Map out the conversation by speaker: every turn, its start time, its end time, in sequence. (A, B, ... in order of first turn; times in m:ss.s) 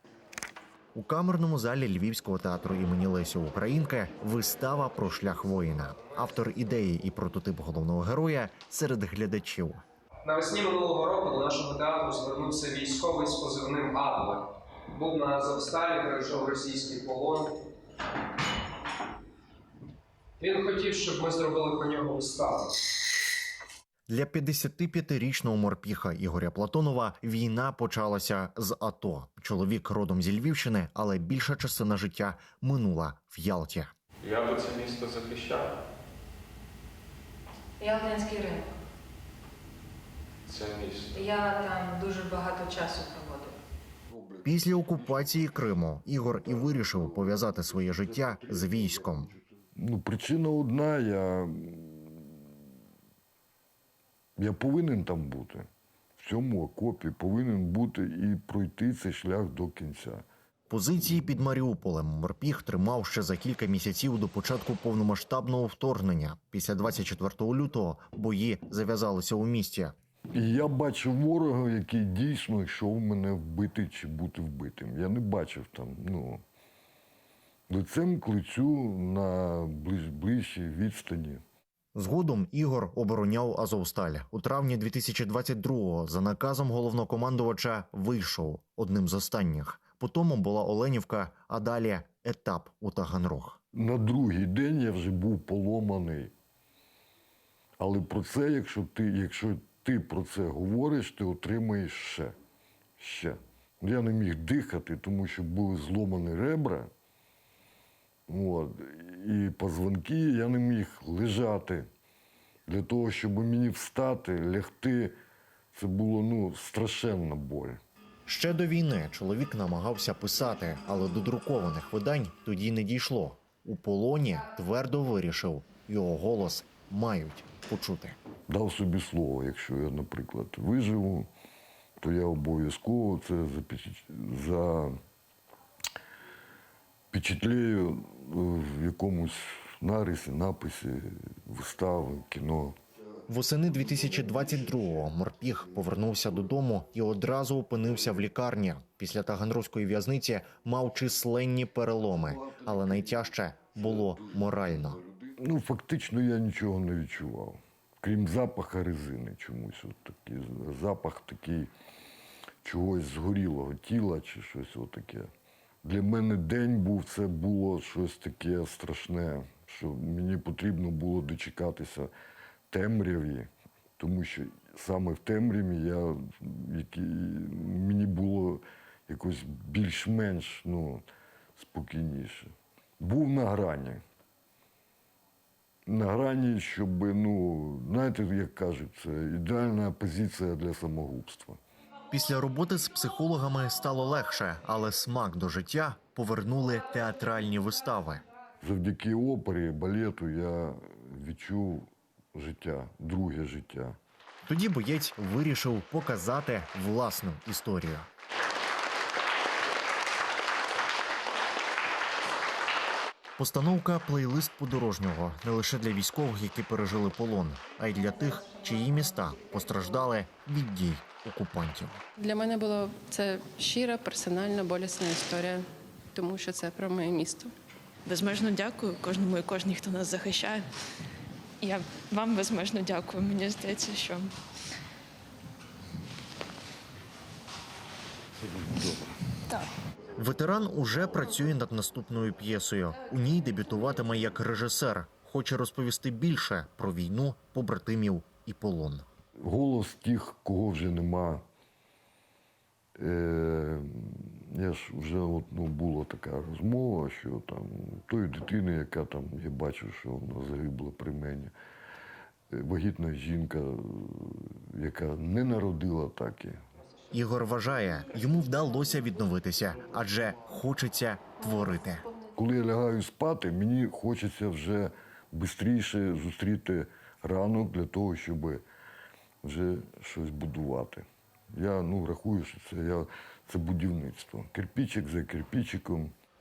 0:00.9-0:09.8 A
0:10.2-0:17.6 B
0:20.4-0:22.8 B
0:24.1-0:33.9 A
0:34.2-0:35.7 C
0:37.8-0:38.7 D
0:40.5-0:41.2 C
0:41.4-0:43.5 D
0:44.4-0:49.3 A
0:49.8-0:52.4 E
0:54.4-1:00.2 E
1:00.7-1:09.9 A
1:10.3-1:16.4 E
1:17.7-1:21.4 E
1:21.9-1:33.6 A
1:33.7-1:36.3 E
1:37.8-1:42.4 E
1:43.0-1:46.9 E
1:48.3-1:51.9 E
1:52.7-1:55.2 E
1:55.7-1:57.8 E
1:58.2-2:08.2 A
2:08.5-2:11.3 E
2:12.0-2:14.9 E
2:17.1-2:22.7 E
2:23.3-2:35.0 A
2:35.4-2:41.7 E
2:42.6-2:45.3 E
2:45.8-2:52.1 E
2:52.7-3:04.0 E
3:05.8-3:11.6 E
3:12.1-3:18.2 A
3:18.6-3:24.0 E
3:24.4-3:28.1 A
3:33.4-3:42.0 A
3:42.2-3:47.5 F
3:48.0-3:50.7 G
3:51.6-3:54.3 G
4:00.2-4:09.0 A
4:09.4-4:11.4 E
4:13.0-4:21.5 E
4:22.5-4:26.6 E
4:27.1-4:32.0 A
4:32.4-4:38.6 E
4:39.4-4:46.1 E